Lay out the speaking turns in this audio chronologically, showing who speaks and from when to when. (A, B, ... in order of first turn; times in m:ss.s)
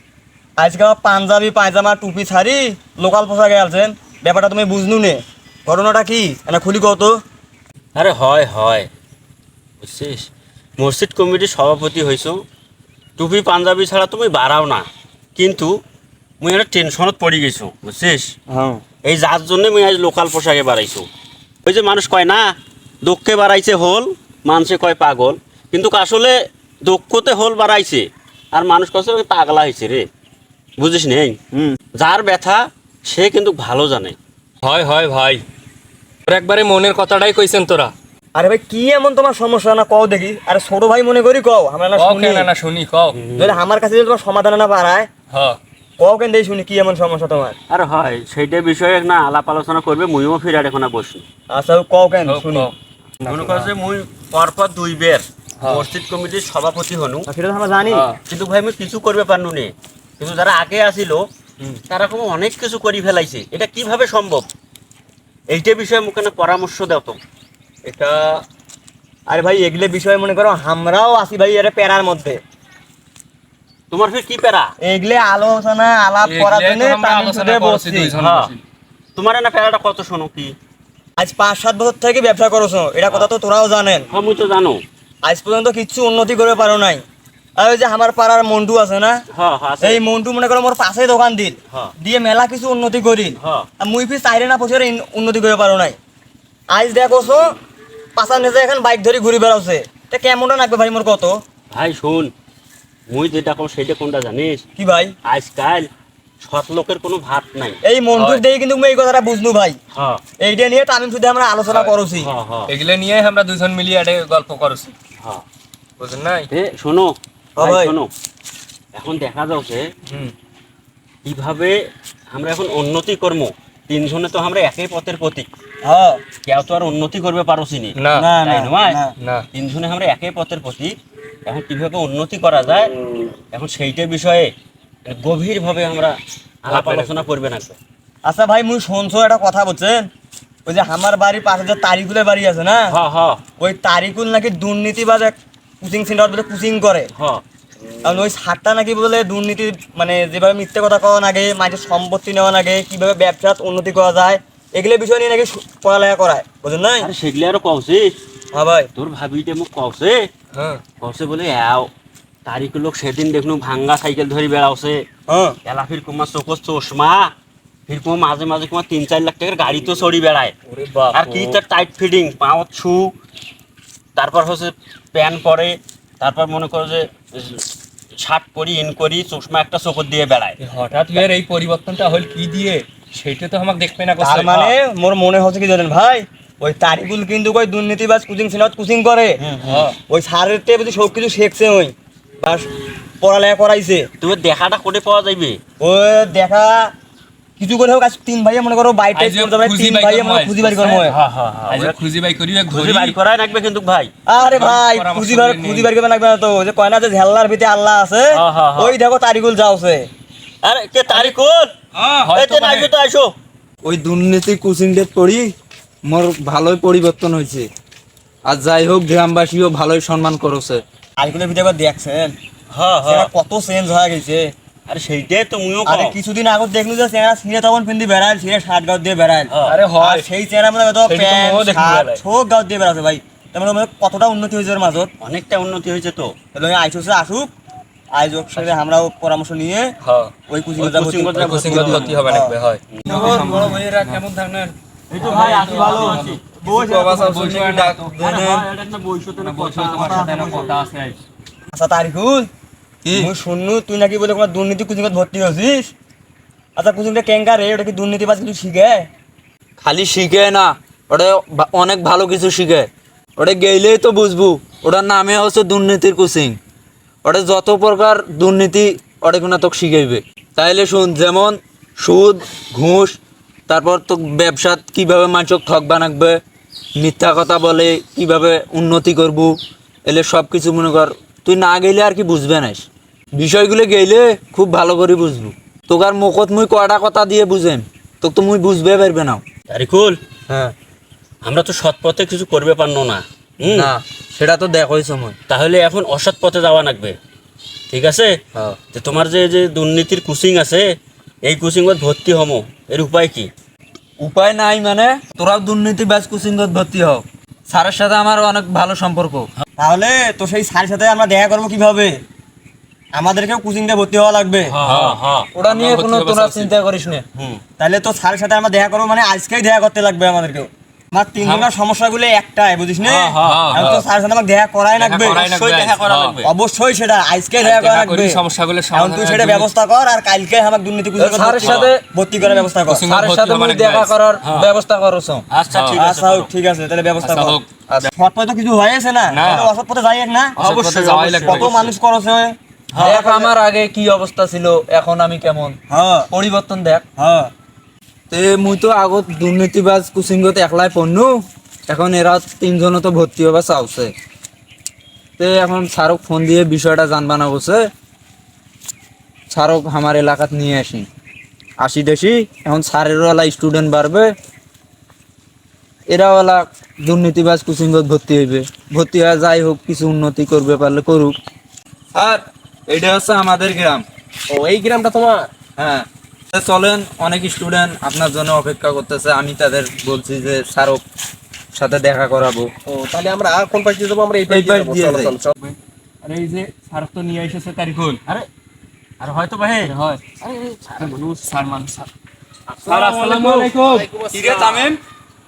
0:00.6-0:07.2 A
0:07.9-0:08.9 B
0:09.8-0:12.4 B
0:13.2-0:15.8 B
0:16.4-0:18.3 B
0:18.5-0:18.8 A
0:19.0-0:21.1 B
0:21.6-0:22.5 B
0:23.0-0:30.1 B
0:30.8-0:31.4 B
0:32.0-0:34.2 B
0:34.6-0:35.4 C
0:36.3-0:37.9 C
0:38.3-0:42.5 A
0:42.0-0:43.2 C
0:43.1-0:43.6 B
0:43.4-0:45.1 A
0:45.3-0:45.6 C
0:46.0-0:47.6 A
0:47.7-0:51.2 B
0:51.5-0:52.7 A
0:52.2-0:53.7 C
0:53.3-0:57.3 B
0:55.6-0:55.9 C
0:57.3-0:58.1 A
0:57.9-0:58.2 C
0:58.3-1:01.3 B
1:01.9-1:04.5 B
1:05.5-1:07.2 B
1:07.8-1:08.4 A
1:09.3-1:12.4 A
1:13.9-1:14.7 B
1:14.8-1:18.1 A
1:16.2-1:18.6 C
1:18.2-1:18.5 B
1:19.2-1:20.5 B
1:21.2-1:24.1 A
1:24.1-1:24.8 B
1:25.2-1:27.0 A
1:27.6-1:29.2 A
1:29.3-1:30.0 B
1:29.8-1:36.0 A
1:33.4-1:33.7 B
1:36.7-1:37.5 A
1:38.2-1:41.4 A
1:41.7-1:42.3 B
1:43.1-1:44.6 B
1:44.8-1:45.1 A
1:45.2-1:45.9 B
1:46.4-1:48.4 B
1:47.8-1:49.8 A
1:49.9-1:50.2 B
1:50.4-1:52.3 A
1:51.7-1:52.7 B
1:52.7-1:54.9 C
1:55.2-1:55.4 B
1:56.0-1:56.5 C
1:56.5-1:58.1 B
1:57.6-1:57.9 A
1:58.9-1:59.9 B
2:01.2-2:01.8 B
2:02.3-2:05.5 B
2:05.8-2:06.2 A
2:06.4-2:09.0 B
2:08.0-2:08.3 C
2:08.1-2:09.1 A
2:09.2-2:09.4 C
2:09.5-2:12.9 B
2:13.5-2:14.5 B
2:15.0-2:17.8 B
2:16.7-2:17.1 C
2:18.2-2:20.1 A
2:20.6-2:22.9 A
2:22.9-2:23.4 B
2:23.6-2:27.1 A
2:27.1-2:27.4 B
2:28.0-2:37.1 A
2:37.0-2:38.1 B
2:38.5-2:38.9 A
2:38.9-2:40.2 B
2:40.5-2:40.8 C
2:41.0-2:41.9 B
2:42.4-2:45.0 B
2:45.3-2:45.6 A
2:45.6-2:47.3 B
2:47.9-2:50.5 B
2:50.7-2:51.6 C
2:51.1-2:53.1 B
2:54.2-2:57.6 B
2:58.2-3:00.6 B
3:00.6-3:04.7 C
3:04.2-3:09.5 A
3:09.4-3:09.8 B
3:09.6-3:10.0 C
3:10.1-3:12.7 A
3:13.2-3:14.1 A
3:14.2-3:15.6 B
3:15.8-3:16.9 A
3:17.6-3:21.2 A
3:19.1-3:21.1 C
3:21.0-3:22.0 B
3:21.7-3:23.2 C
3:22.7-3:24.1 B
3:24.3-3:30.0 A
3:24.4-3:25.9 C
3:28.3-3:29.0 B
3:30.6-3:31.7 B
3:31.1-3:31.3 C
3:32.0-3:32.3 D
3:32.2-3:32.9 C
3:32.3-3:33.3 B
3:33.8-3:35.5 D
3:36.0-3:37.7 D
3:38.4-3:40.8 D
3:41.2-3:42.3 A
3:42.7-3:43.3 B
3:43.0-3:44.5 A
3:44.9-3:46.2 B
3:45.8-3:55.1 A
3:49.5-3:49.8 B
3:49.7-3:50.3 C
3:51.0-3:52.2 C
3:55.2-3:56.3 B
3:56.5-3:57.5 A
3:58.1-3:59.9 A
4:00.0-4:00.3 C
4:00.5-4:02.6 A
4:00.8-4:02.2 B
4:01.4-4:04.2 C
4:01.8-4:02.1 D
4:03.0-4:03.3 B
4:03.1-4:04.7 D
4:05.1-4:06.4 B
4:05.2-4:07.4 A
4:05.2-4:08.1 C
4:07.0-4:08.6 D
4:08.2-4:10.8 B
4:09.4-4:11.2 C
4:09.9-4:10.7 A
4:11.7-4:12.5 A
4:13.0-4:13.3 D
4:13.2-4:15.9 A
4:16.8-4:19.1 A
4:19.8-4:26.6 D
4:27.2-4:36.4 D
4:37.0-4:49.4 D
4:49.7-4:50.2 B
4:50.5-4:50.7 D
4:51.4-4:53.9 B
4:53.6-4:55.4 D
4:55.5-4:57.2 B
4:57.9-4:58.3 B
4:58.9-5:00.9 B
5:01.4-5:03.5 B
5:04.2-5:09.5 D
5:09.8-5:12.1 A
5:13.1-5:14.7 A
5:14.7-5:15.5 B
5:14.8-5:16.7 C
5:15.5-5:17.2 D
5:17.3-5:17.6 B
5:17.8-5:25.4 A
5:21.4-5:21.7 C
5:23.0-5:23.8 B
5:23.4-5:24.0 C
5:25.0-5:26.4 C
5:25.2-5:26.5 B
5:26.4-5:28.4 A
5:27.6-5:29.7 C
5:28.9-5:33.1 A
5:31.2-5:32.0 D
5:31.6-5:31.9 C
5:32.9-5:34.1 C
5:33.1-5:35.4 D
5:34.4-5:34.7 B
5:35.5-5:36.5 B
5:35.7-5:36.0 C
5:36.0-5:37.6 A
5:37.2-5:37.7 C
5:38.1-5:40.6 A
5:39.3-5:39.7 C
5:40.6-5:41.7 D
5:40.6-5:41.8 C
5:41.4-5:43.5 A
5:42.9-5:43.2 B
5:43.0-5:45.8 D
5:45.9-5:46.3 A
5:46.3-5:47.0 D
5:47.2-5:47.5 A
5:48.3-5:54.1 D
5:55.4-5:57.9 D
5:59.5-6:01.1 D
6:01.8-6:04.3 D
6:06.1-6:11.4 D
6:12.1-6:14.0 D
6:14.5-6:15.5 E
6:15.8-6:21.0 D
6:21.7-6:22.7 D
6:22.8-6:25.5 E
6:24.5-6:25.3 D
6:25.6-6:28.2 C
6:29.2-6:29.9 B
6:29.8-6:32.1 C
6:32.8-6:34.1 C
6:32.9-6:33.7 D
6:33.5-6:34.9 E
6:34.3-6:35.0 D